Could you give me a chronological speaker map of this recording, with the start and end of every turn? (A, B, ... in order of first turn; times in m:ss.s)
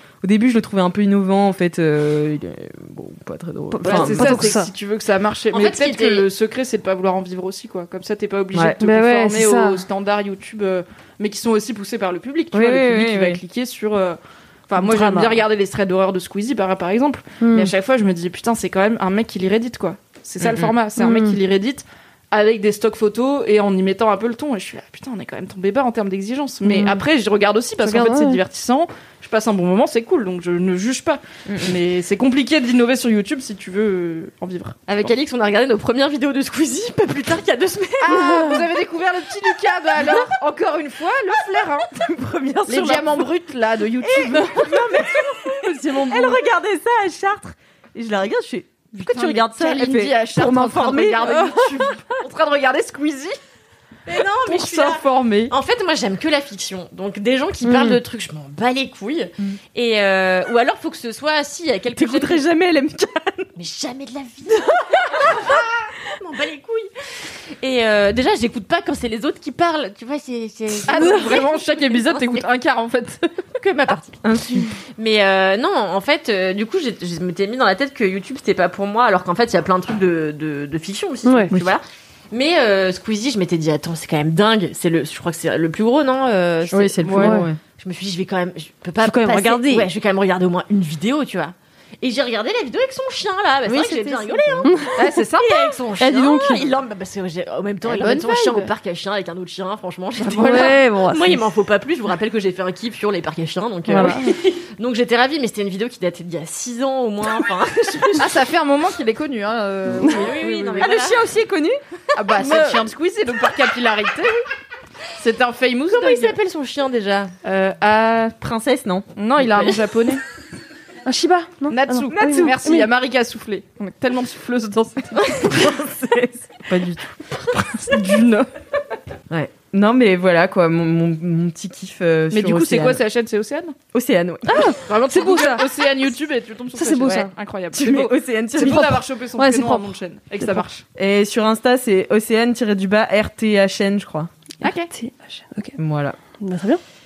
0:00.2-0:04.6 A
0:03.7-0:04.7 B
0:03.8-0:35.1 C
0:05.5-0:06.3 D
0:08.5-0:08.8 A
0:08.8-0:09.8 B
0:12.5-0:13.4 A
0:14.8-0:15.4 B
0:17.4-0:17.7 B
0:20.4-0:20.7 A
0:21.0-0:21.4 B
0:26.6-0:27.0 B
0:27.8-0:28.4 B
0:31.5-0:31.8 A
0:34.9-0:38.7 D
0:38.0-0:41.9 C
0:41.9-0:43.2 A
0:42.7-0:45.1 C
0:44.0-0:51.6 A
0:45.9-0:46.3 C
0:49.0-0:53.4 C
0:51.3-0:51.8 B
0:54.1-1:02.4 D
0:54.4-0:55.5 C
0:57.6-0:58.0 B
1:01.9-1:03.5 A
1:03.6-1:12.4 D
1:04.9-1:05.4 A
1:10.9-1:13.2 C
1:11.0-1:11.3 B
1:13.6-1:14.2 D
1:14.2-1:14.7 A
1:15.0-1:34.7 D
1:21.2-1:21.5 B
1:26.7-1:27.6 A
1:27.0-1:27.4 C
1:27.1-1:27.5 B
1:29.0-1:29.9 B
1:33.7-1:34.7 A
1:34.6-1:35.3 B
1:35.0-1:35.7 C
1:35.4-1:48.4 D
1:36.0-1:36.6 B
1:38.0-1:38.2 B
1:38.0-1:38.7 C
1:40.2-1:41.4 B
1:43.9-1:44.3 B
1:48.2-1:50.8 C
1:49.9-1:51.2 D
1:50.1-1:50.8 B
1:50.8-1:51.8 A
1:52.1-1:54.4 C
1:52.4-1:52.8 A
1:55.2-1:56.3 C
1:55.9-1:57.3 D
1:57.4-1:58.4 C
1:58.4-1:59.7 A
1:59.2-2:00.2 C
2:01.1-2:02.9 B
2:01.7-2:05.7 C
2:02.1-2:02.6 A
2:05.4-2:07.1 A
2:07.5-2:08.5 C
2:09.3-2:13.0 A
2:12.3-2:13.8 C
2:13.9-2:14.7 A
2:14.4-2:15.7 B
2:14.8-2:20.8 C
2:16.8-2:17.3 B
2:17.7-2:19.0 A
2:19.4-2:20.6 B
2:20.9-2:24.3 A
2:24.6-2:24.9 C
2:24.6-2:25.8 B
2:25.8-2:26.2 A
2:26.4-2:26.8 B